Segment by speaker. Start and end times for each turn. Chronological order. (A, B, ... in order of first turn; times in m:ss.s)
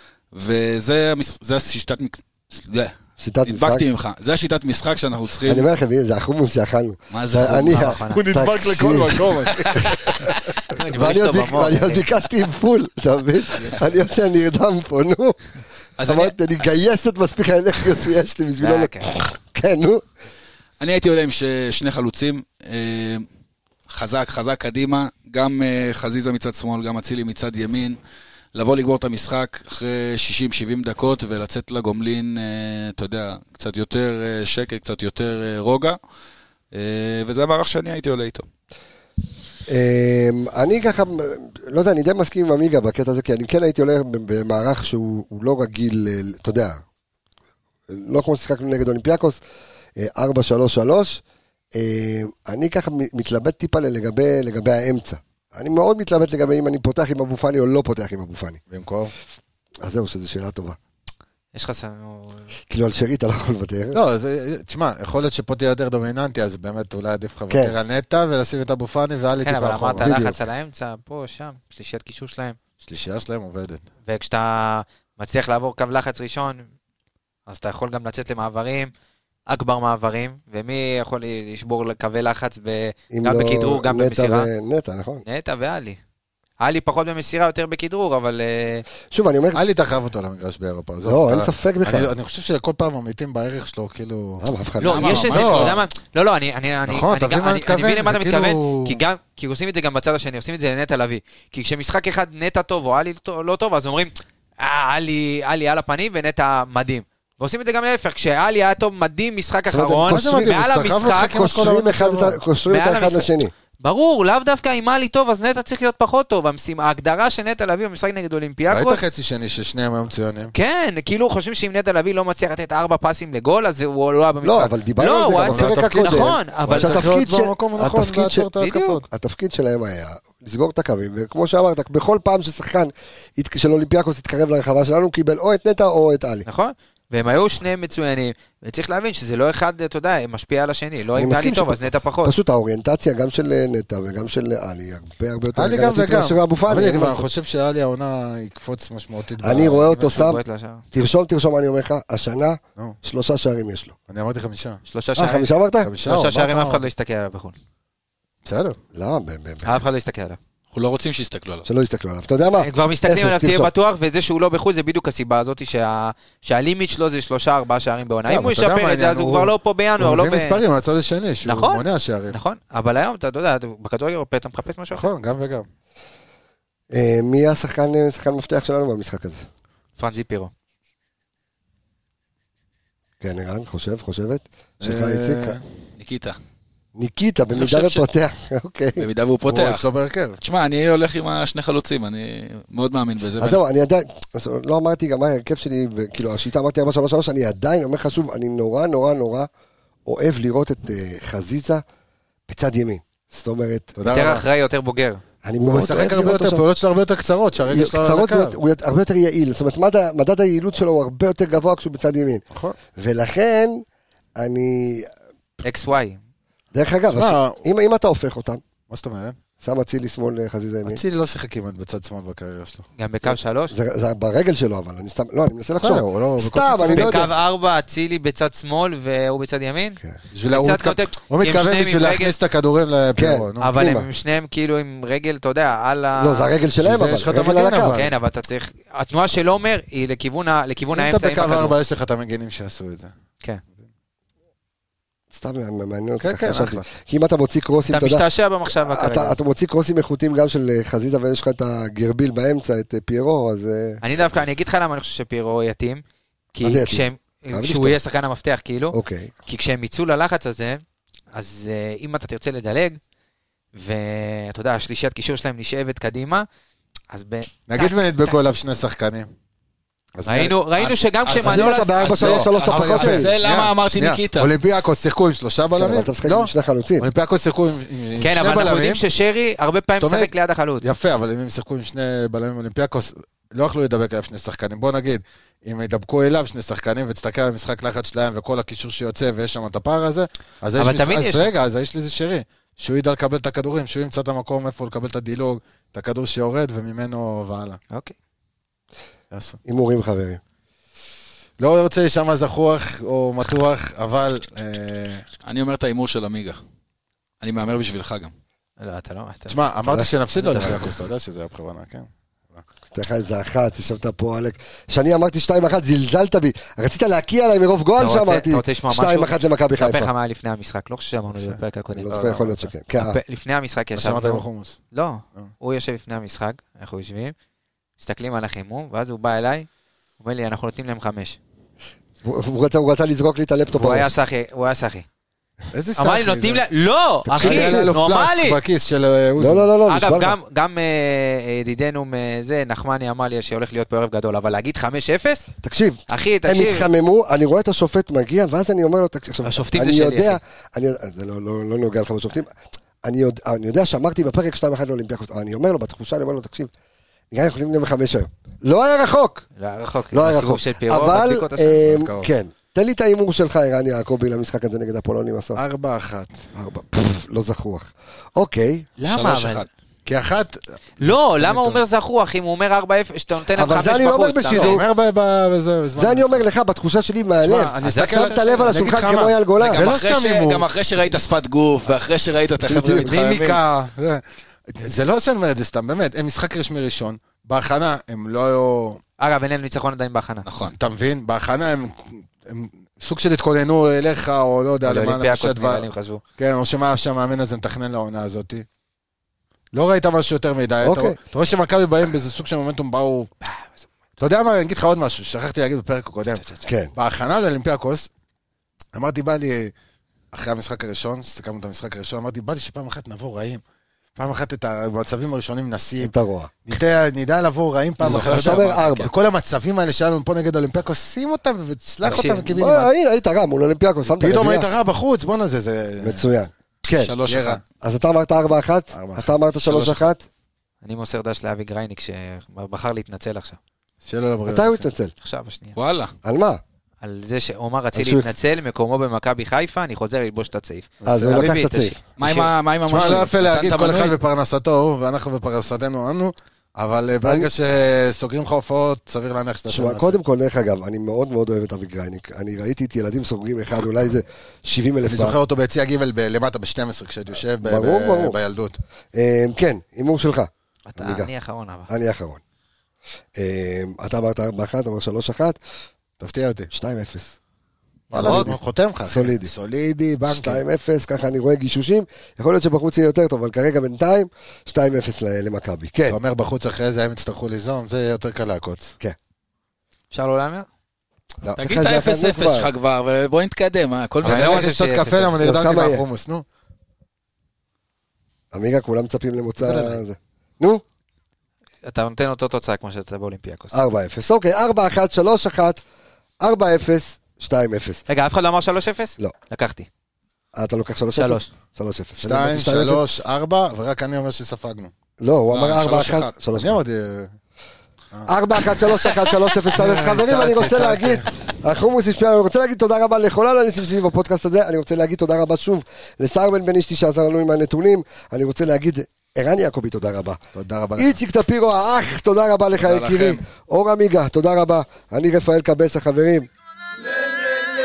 0:00.3-0:05.6 A
0:03.2-0:03.8 B
0:05.4-0:09.5 B
0:07.1-0:09.9 A
0:07.7-0:08.3 C
0:09.5-0:12.0 C
0:10.9-0:15.4 B
0:16.0-0:16.3 A
0:16.0-0:20.0 B
0:18.6-0:19.1 C
0:20.8-0:23.2 A
0:23.9-0:28.0 A
0:28.5-0:36.0 A
0:36.7-0:38.4 A
0:39.7-0:46.8 B
0:47.9-0:49.4 B
0:50.0-0:51.2 B
0:51.7-0:58.6 B
0:58.7-0:59.1 D
0:59.8-1:00.8 B
1:01.5-1:02.5 C
1:02.7-1:04.0 B
1:03.9-1:10.2 D
1:07.5-1:07.7 B
1:09.4-1:12.6 C
1:10.0-1:10.4 B
1:12.8-1:13.8 D
1:14.0-1:16.7 C
1:17.5-1:18.9 C
1:19.5-1:24.5 C
1:23.1-1:25.2 B
1:25.2-1:26.0 C
1:26.6-1:28.8 C
1:29.1-1:29.6 B
1:29.5-1:34.5 D
1:31.0-1:32.1 B
1:34.4-1:35.3 B
1:34.8-1:51.4 C
1:34.8-1:35.8 A
1:35.2-1:35.7 D
1:36.9-1:39.0 D
1:49.7-1:50.5 B
1:50.1-1:52.4 D
1:51.2-1:53.5 B
1:52.7-1:53.3 C
1:53.8-1:59.0 C
1:58.7-2:00.5 D
2:00.5-2:07.1 C
2:04.4-2:08.5 B
2:05.4-2:09.0 D
2:08.6-2:09.0 C
2:09.1-2:16.4 B
2:16.4-2:22.3 C
2:21.1-2:27.2 B
2:25.5-2:29.9 D
2:29.4-2:33.9 B
2:29.5-2:30.8 C
2:34.1-2:34.8 D
2:34.8-2:35.5 C
2:35.2-2:35.9 B
2:35.8-2:36.8 D
2:36.0-2:37.6 C
2:38.4-2:38.8 D
2:38.9-2:39.8 B
2:39.6-2:40.4 C
2:40.7-2:41.6 A
2:41.6-2:43.7 B
2:42.6-2:50.6 C
2:48.3-2:52.4 D
2:51.4-2:55.0 C
2:54.9-2:55.7 D
2:56.9-2:59.4 B
3:00.0-3:00.5 C
3:03.2-3:05.6 B
3:04.8-3:05.7 D
3:06.0-3:06.4 A
3:06.9-3:09.1 B
3:07.5-3:08.0 A
3:09.0-3:09.8 A
3:09.5-3:10.4 D
3:10.4-3:13.6 A
3:13.4-3:19.5 B
3:20.0-3:21.8 B
3:22.5-3:23.9 B
3:24.0-3:24.4 D
3:24.0-3:25.2 C
3:25.4-3:26.6 B
3:25.6-3:28.6 D
3:27.6-3:32.4 B
3:32.9-3:33.8 B
3:34.4-3:35.1 B
3:35.6-3:36.2 C
3:36.7-3:38.6 B
3:37.1-3:37.6 D
3:38.9-3:39.4 D
3:39.6-3:41.0 B
3:40.8-3:42.8 D
3:43.0-3:43.7 C
3:43.3-3:47.3 B
3:45.8-3:47.3 D
3:46.9-3:52.4 C
3:50.3-3:53.7 D
3:53.1-3:54.1 B
3:53.6-3:56.5 C
3:56.2-3:58.0 B
3:56.8-3:58.1 D
3:57.9-4:01.7 C
4:00.9-4:03.1 D
4:05.3-4:14.0 B
4:06.2-4:06.9 D
4:07.9-4:09.4 C
4:14.0-4:16.0 C
4:16.5-4:18.9 C
4:16.6-4:18.0 B
4:18.9-4:19.3 B
4:19.4-4:20.8 C
4:21.3-4:23.0 C
4:23.7-4:26.4 C
4:27.1-4:28.4 C
4:27.7-4:29.3 D
4:30.2-4:30.6 D
4:30.2-4:32.1 C
4:30.8-4:34.5 A
4:31.4-4:33.3 B
4:32.1-4:39.0 D
4:35.8-4:37.1 B
4:38.2-4:40.9 C
4:40.0-4:57.8 D
4:50.8-4:51.5 C
4:59.3-4:59.6 D
4:59.6-5:00.4 B
5:01.6-5:05.2 D
5:05.4-5:06.6 A
5:07.4-5:08.3 A
5:08.8-5:09.6 C
5:09.5-5:12.6 D
5:09.8-5:10.9 B
5:10.4-5:10.8 C
5:12.9-5:20.1 B
5:18.0-5:27.3 C
5:21.9-5:23.2 B
5:22.1-5:22.6 D
5:24.0-5:24.8 D
5:28.0-5:29.7 C
5:30.2-5:31.4 C
5:32.2-5:34.1 B
5:33.7-5:35.0 C
5:35.7-5:36.6 D
5:36.0-5:38.6 C
5:37.2-5:37.9 B
5:37.4-5:39.7 D
5:39.4-5:40.4 B
5:39.8-5:45.4 C
5:45.6-5:56.7 B
5:46.1-5:46.9 C
5:49.4-5:50.4 C
5:57.3-5:59.4 B
5:59.6-6:02.0 C
6:00.1-6:05.6 B
6:01.8-6:02.3 D
6:05.5-6:06.3 D
6:06.5-6:08.9 B
6:09.0-6:09.7 C
6:09.0-6:09.7 A
6:10.0-6:11.8 D
6:11.0-6:14.8 C
6:13.5-6:14.8 B
6:14.5-6:16.4 D
6:15.9-6:19.8 B
6:17.4-6:20.6 D
6:17.8-6:19.0 C
6:19.6-6:23.6 A
6:22.6-6:23.2 B
6:23.0-6:29.0 D
6:29.2-6:30.4 C
6:30.4-6:30.7 A
6:30.7-6:35.8 D
6:34.8-6:36.2 C
6:36.4-6:38.6 D
6:39.7-6:43.3 D
6:40.8-6:41.2 B
6:44.2-6:48.1 D
6:46.6-6:46.9 B
6:48.9-6:49.7 D
6:50.3-6:53.6 D
6:54.2-6:56.1 D
6:56.0-6:56.5 B
6:56.7-7:02.9 D
6:58.0-6:59.1 A
6:58.0-6:59.1 B
7:02.0-7:02.5 C
7:02.2-7:04.7 B
7:04.1-7:06.3 D
7:06.0-7:07.1 B
7:07.0-7:07.6 A
7:07.2-7:07.6 D
7:07.8-7:10.2 B
7:08.9-7:10.1 D
7:10.8-7:13.6 C
7:14.0-7:14.8 D
7:14.5-7:15.1 B
7:15.2-7:15.8 C
7:15.8-7:16.1 A
7:16.2-7:16.6 B
7:17.0-7:22.5 C
7:17.9-7:18.3 B
7:21.0-7:21.4 D
7:21.0-7:22.0 B
7:22.2-7:24.2 A
7:22.9-7:30.2 D
7:27.2-7:27.5 B
7:29.7-7:35.4 B
7:35.0-7:38.8 D
7:37.6-7:38.4 B
7:39.1-7:41.3 B
7:40.9-7:41.9 C
7:41.9-7:42.4 B
7:43.4-7:45.6 B
7:46.2-7:46.7 D
7:46.7-7:47.3 B
7:48.1-7:48.5 C
7:48.1-7:50.6 D
7:48.2-7:49.5 B
7:50.3-7:56.2 B
7:56.1-7:58.9 D
8:00.1-8:00.7 C
8:01.6-8:02.7 B
8:01.6-8:04.6 A
8:04.2-8:05.4 C
8:04.2-8:06.4 D
8:05.4-8:06.0 B
8:08.5-8:10.8 B
8:09.6-8:10.0 D
8:11.8-8:13.8 C
8:13.7-8:15.8 B
8:16.4-8:18.0 B
8:18.1-8:19.9 C
8:20.6-8:23.0 B
8:21.1-8:21.5 C
8:22.2-8:24.9 D
8:25.2-8:26.8 B
8:25.5-8:26.3 A
8:26.5-8:27.3 D
8:28.2-8:40.4 B
8:29.7-8:31.4 D
8:40.5-8:41.2 D
8:41.0-8:46.5 B
8:42.8-8:43.4 A